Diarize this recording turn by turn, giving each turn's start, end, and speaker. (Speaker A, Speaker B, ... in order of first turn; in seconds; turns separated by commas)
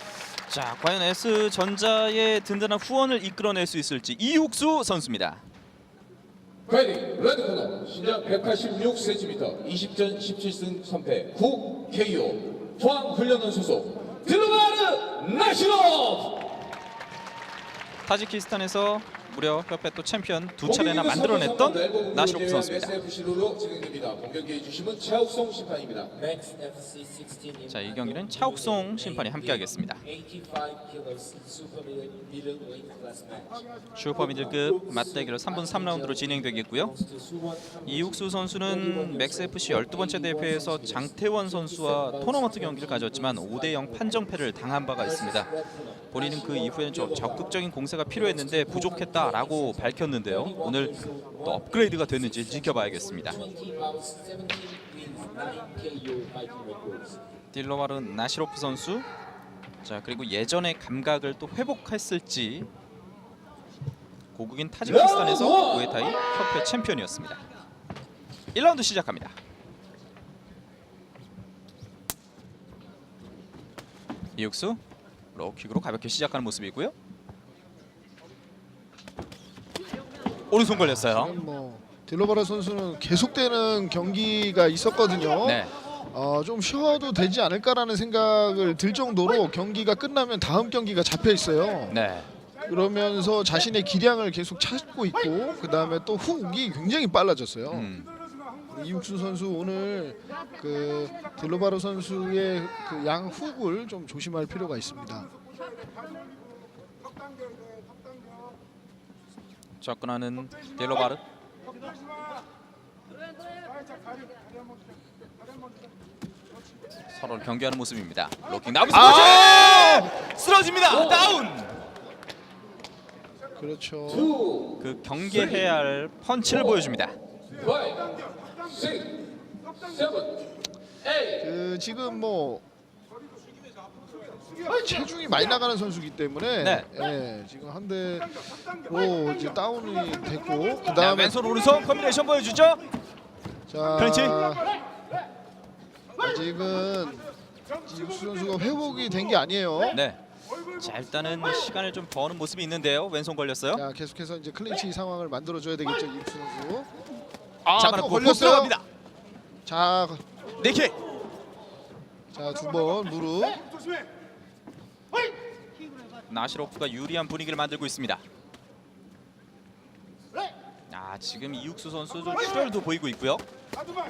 Speaker A: 0.5-5.4, Speaker B: 6.7-16.3, Speaker A: 18.1-23.2, Speaker B: 23.4-27.7, Speaker A: 27.7-30.1, Speaker B: 30.3-33.6, Speaker A: 33.9-37.0, Speaker B: 37.3-37.8, Speaker A: 37.7-53.4, Speaker B: 53.3-57.2, Speaker A: 57.5-59.1, Speaker A: 59.8-62.7, Speaker A: 64.3-67.4, Speaker A: 68.5-69.3, Speaker A: 74.4-74.8, Speaker A: 75.3-77.0, Speaker A: 80.5-81.4, Speaker C: 80.7-92.0, Speaker A: 85.4-85.7, Speaker A: 91.9-92.3, Speaker C: 92.6-98.0, Speaker A: 97.7-98.1, Speaker C: 98.7-105.3, Speaker A: 109.8-111.2, Speaker A: 117.1-121.8, Speaker C: 118.9-120.1, Speaker C: 123.6-124.5, Speaker A: 124.8-127.2, Speaker C: 131.3-132.6, Speaker C: 134.7-141.6, Speaker A: 136.6-136.9, Speaker A: 141.0-142.8, Speaker C: 143.7-144.8, Speaker A: 143.9-144.4, Speaker C: 146.2-147.3, Speaker C: 147.9-150.0, Speaker A: 149.9-150.2, Speaker A: 150.7-153.8, Speaker C: 153.7-156.9, Speaker A: 157.7-158.8, Speaker C: 157.7-158.8, Speaker C: 159.7-160.2, Speaker A: 160.6-161.0, Speaker C: 162.3-163.8, Speaker A: 166.3-168.2, Speaker A: 170.9-173.4